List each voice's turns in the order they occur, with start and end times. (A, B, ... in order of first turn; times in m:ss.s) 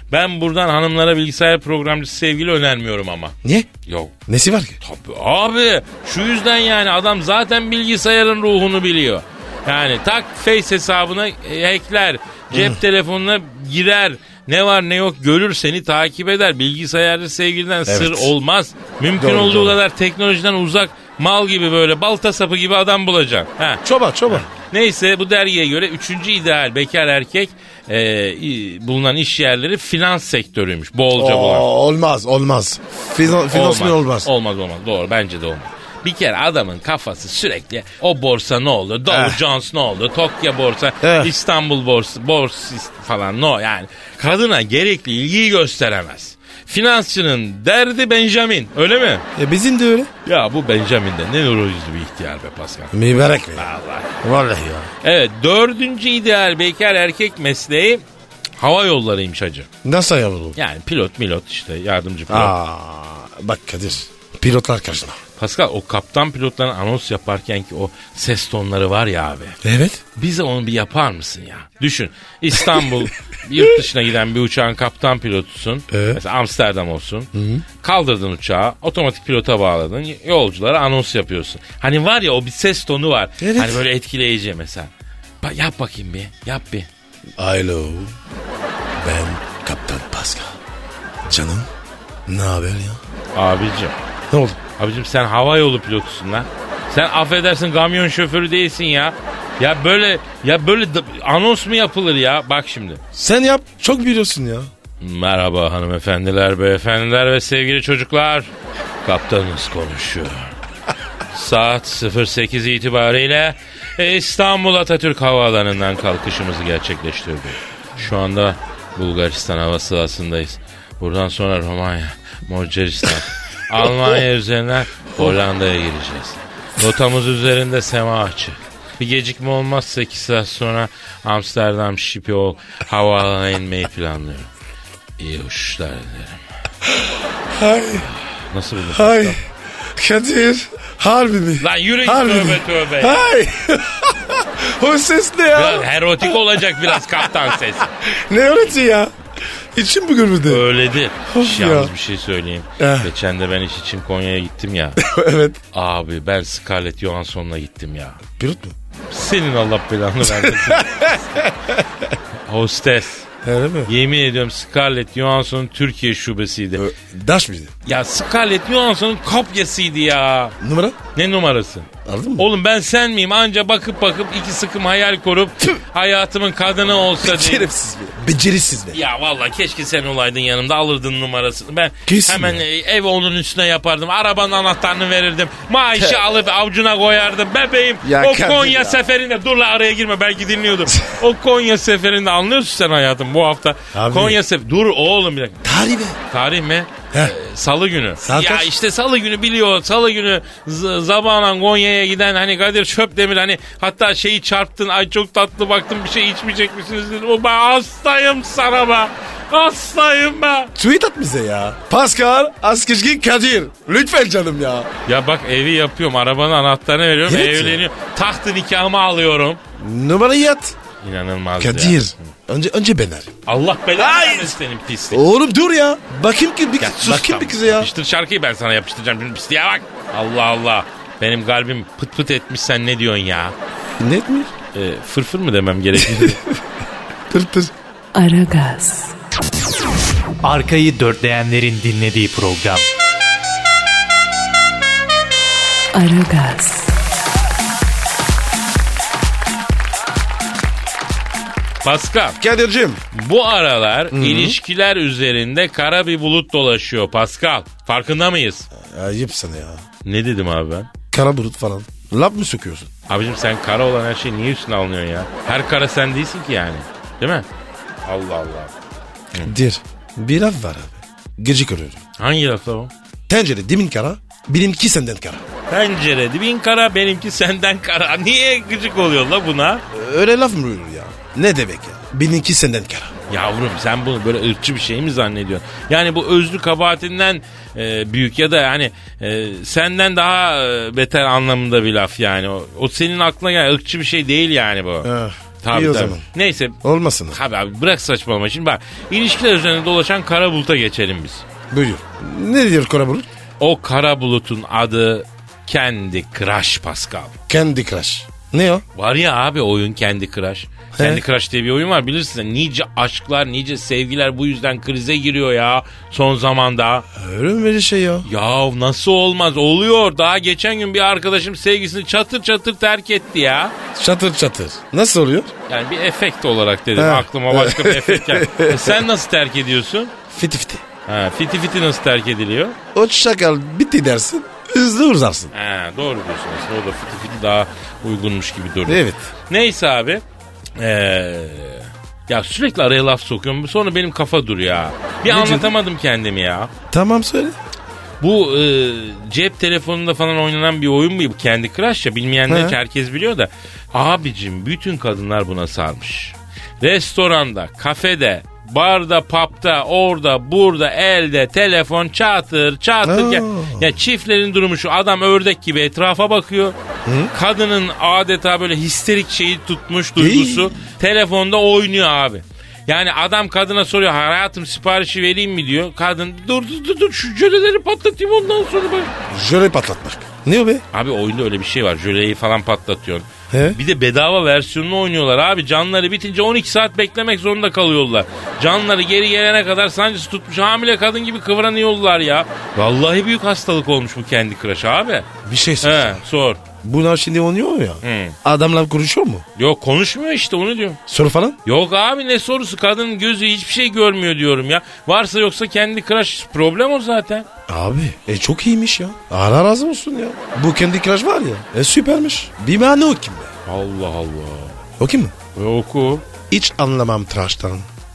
0:00.1-0:03.3 A
0:03.4-0:03.7 B
0:03.9-0:04.1 A
0:04.3-0:04.8 B
0:04.8-0:31.7 A
0:12.5-0:12.8 B
0:17.9-0:18.3 B
0:19.2-0:19.8 B
0:23.8-0:24.4 B
0:31.1-0:34.3 B
0:33.3-0:49.2 A
0:39.1-0:39.4 B
0:41.0-0:41.3 B
0:49.4-0:50.1 B
0:50.2-0:52.9 A
0:52.9-0:53.7 B
0:53.6-0:54.2 A
0:54.2-0:54.9 B
0:55.0-0:58.0 A
0:58.6-0:59.7 A
0:59.8-1:00.6 B
1:00.6-1:02.5 A
1:02.3-1:05.2 B
1:05.4-1:09.6 A
1:09.6-1:10.0 B
1:10.1-1:17.3 A
1:12.7-1:12.9 B
1:15.9-1:16.2 B
1:17.3-1:17.6 B
1:17.8-1:24.9 A
1:23.4-1:23.8 B
1:25.4-1:26.9 A
1:27.4-1:28.1 B
1:29.0-1:30.6 B
1:31.2-1:31.7 B
1:32.3-1:33.0 B
1:33.3-1:34.0 A
1:34.3-1:34.6 B
1:34.8-1:43.0 A
1:43.1-1:44.7 B
1:45.0-1:48.5 A
1:49.0-1:50.5 A
1:51.3-2:14.5 A
2:15.2-2:16.4 A
2:16.9-2:18.1 B
2:18.3-2:19.4 A
2:18.9-2:29.1 B
2:21.6-2:23.2 A
2:25.5-2:27.9 A
2:29.7-2:30.7 B
2:30.4-2:35.0 A
2:31.2-2:31.9 B
2:32.8-2:33.1 B
2:35.0-2:35.6 B
2:35.7-2:38.2 A
2:38.3-2:38.8 B
2:39.1-2:41.4 A
2:40.2-2:42.1 B
2:42.4-2:43.3 A
2:43.4-2:43.9 B
2:43.9-2:46.8 A
2:46.8-2:47.7 B
2:47.9-2:50.6 A
2:50.6-2:51.0 B
2:51.1-2:57.7 A
2:52.0-2:52.5 B
2:57.2-2:59.0 B
2:58.9-3:15.6 A
3:02.0-3:02.6 B
3:06.0-3:06.2 B
3:08.0-3:09.0 B
3:13.9-3:14.4 B
3:15.6-3:16.2 B
3:16.3-3:30.7 A
3:18.2-3:18.7 B
3:30.8-3:34.9 B
3:35.0-3:39.6 A
3:37.2-3:37.8 B
3:39.8-3:40.8 B
3:41.0-3:42.3 A
3:41.6-3:43.3 B
3:43.4-3:45.2 A
3:44.0-3:44.5 B
3:45.1-3:47.9 B
3:46.8-3:53.5 A
3:54.0-3:54.5 B
3:54.7-3:56.4 A
3:55.9-3:56.6 B
3:57.3-3:57.7 B
3:58.1-3:59.1 C
4:00.4-4:02.9 D
4:05.9-4:06.9 C
4:11.8-4:12.4 A
4:12.4-4:13.0 B
4:13.1-4:18.7 A
4:14.1-4:14.6 B
4:18.7-4:19.8 B
4:20.0-4:20.9 A
4:21.1-4:22.9 B
4:23.1-4:27.4 A
4:28.0-4:28.7 A
4:29.4-4:32.0 B
4:32.2-4:32.9 A
4:33.3-4:35.4 B
4:35.7-4:39.8 A
4:39.9-4:43.1 B
4:43.3-4:55.1 A
4:55.0-4:56.2 B
4:55.6-4:56.8 A
4:56.8-4:57.4 B
4:57.3-5:01.4 A
5:01.7-5:03.3 B
5:03.6-5:07.3 A
5:07.5-5:08.8 B
5:09.0-5:17.0 A
5:11.0-5:11.2 B
5:17.1-5:18.3 B
5:18.2-5:23.8 A
5:23.9-5:25.5 B
5:25.7-5:30.1 A
5:27.0-5:29.0 B
5:30.3-5:30.8 B
5:31.1-5:32.8 A
5:32.9-5:35.5 B
5:35.5-5:40.2 A
5:38.8-5:39.3 B
5:40.8-5:46.7 A
5:45.2-5:45.7 B
5:46.9-5:47.6 B
5:48.2-6:06.8 A
5:52.5-5:52.8 B
6:03.0-6:04.0 B
6:07.0-6:07.3 B
6:07.3-6:19.1 A
6:10.2-6:10.8 B
6:19.3-6:20.8 B
6:20.9-6:35.3 A
6:23.5-6:23.8 B
6:35.4-6:36.2 B
6:35.8-6:36.6 A
6:36.8-6:39.4 B
6:38.0-6:38.4 A
6:39.6-6:41.0 A
6:41.1-6:41.6 B
6:41.6-6:47.5 A
6:47.7-6:53.5 B
6:53.6-6:54.8 A
6:55.0-6:55.3 B
6:55.5-6:56.2 A
6:56.5-6:57.9 B